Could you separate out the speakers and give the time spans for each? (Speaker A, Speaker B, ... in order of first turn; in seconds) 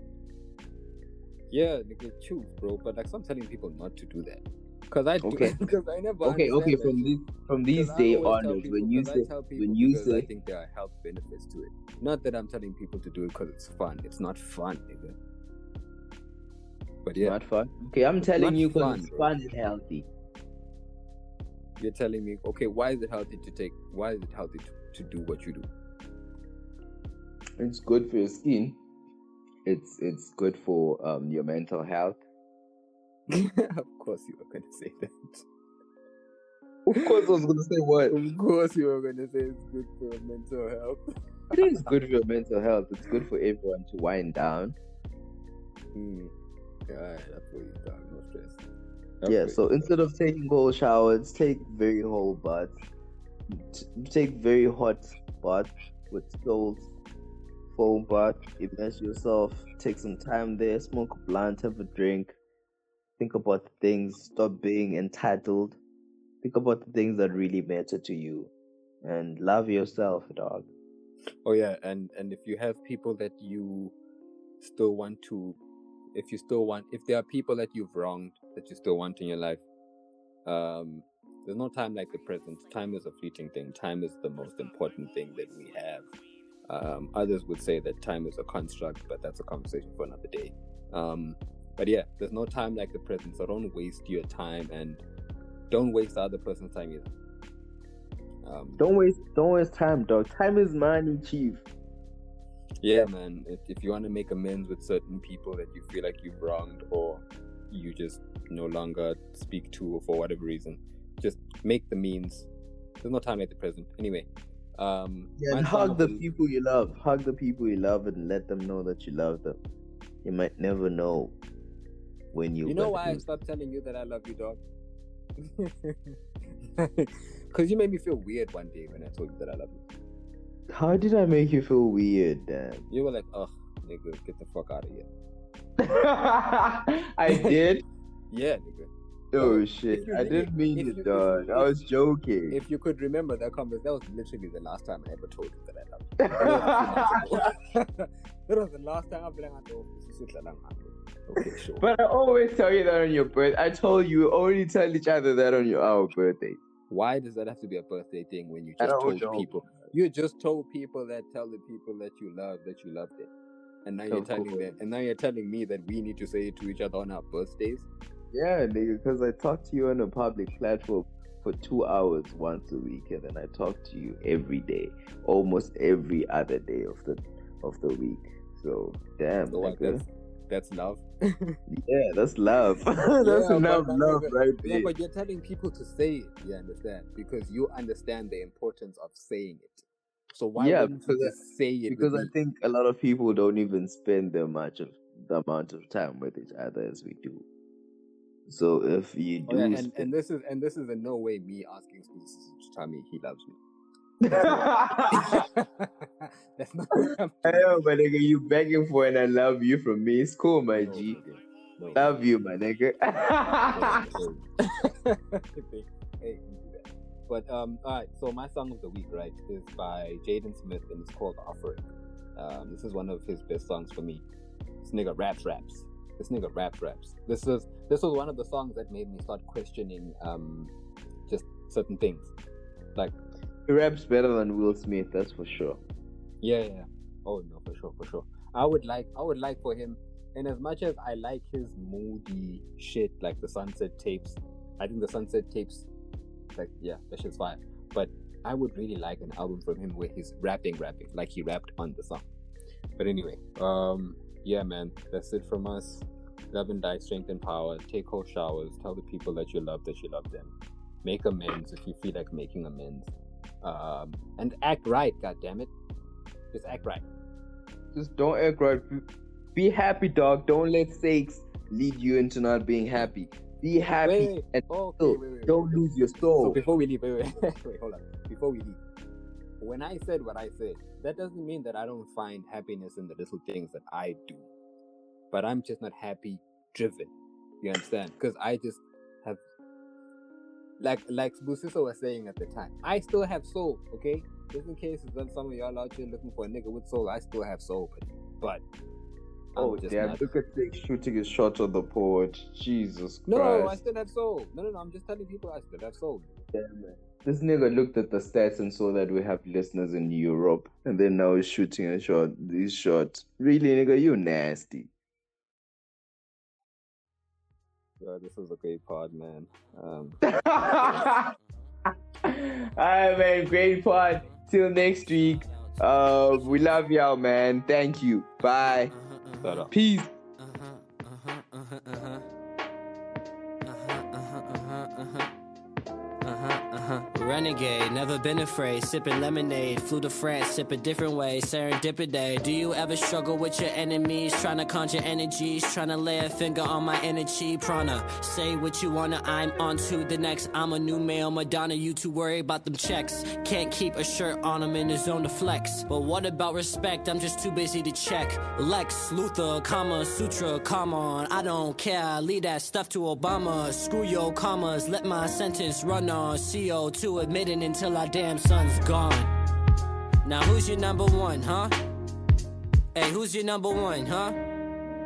Speaker A: 1.5-7.1, 7.7-15.2, 17.0-17.4, 18.4-19.3, 21.8-25.7, 33.3-35.4, 38.1-41.0, 45.9-46.3, 46.9-48.6, 49.2-49.9, 71.4-73.9, 74.6-75.6, 76.1-79.6, 80.4-86.1, 86.7-95.0, 95.7-97.1, 98.4-98.8, 102.8-112.5, 113.0-116.3, 122.6-124.6, 125.4-126.2, 126.8-129.8, 132.9-135.1, 137.3-137.5, 138.3-141.7, 142.5-151.9, 156.9-163.3, 163.8-167.9, 179.5-181.6, 183.2-192.3, 199.5-203.6, 204.3-207.8, 210.8-212.1, 213.7-221.8, 222.3-224.2, 224.8-230.7, 231.3-232.3, 236.4-245.9, 246.6-252.2, 253.0-260.5, 261.0-265.7, 266.5-267.0, 274.0-278.8, 279.6-284.5, 285.3-289.4, 290.8-298.6, 299.5-300.3, 303.2-306.4, 318.0-321.1, 329.4-329.7
Speaker B: 5.2-5.6, 6.2-10.3, 17.1-20.1, 27.6-28.8, 29.6-32.2, 36.9-38.2, 41.5-44.8, 49.3-52.8, 53.5-56.9, 57.7-62.4, 63.2-65.8, 66.4-68.5, 69.0-70.7, 98.8-101.6, 115.4-119.6, 120.2-121.3, 122.3-123.2, 130.7-132.8, 135.8-137.8, 139.3-142.6, 146.2-147.4, 151.8-156.6, 158.8-159.8, 164.1-164.8, 168.3-180.0, 181.7-184.9, 190.6-191.3, 191.9-197.4, 198.5-200.1, 204.2-205.4, 207.4-211.2, 211.9-214.2, 233.7-235.8, 267.9-276.6, 299.6-303.8, 306.5-314.9, 320.2-321.3, 322.2-328.9, 329.7-330.1
Speaker C: 325.4-325.8, 328.9-329.7, 330.4-332.2, 333.6-335.3, 336.2-369.3, 370.2-371.7, 372.9-374.4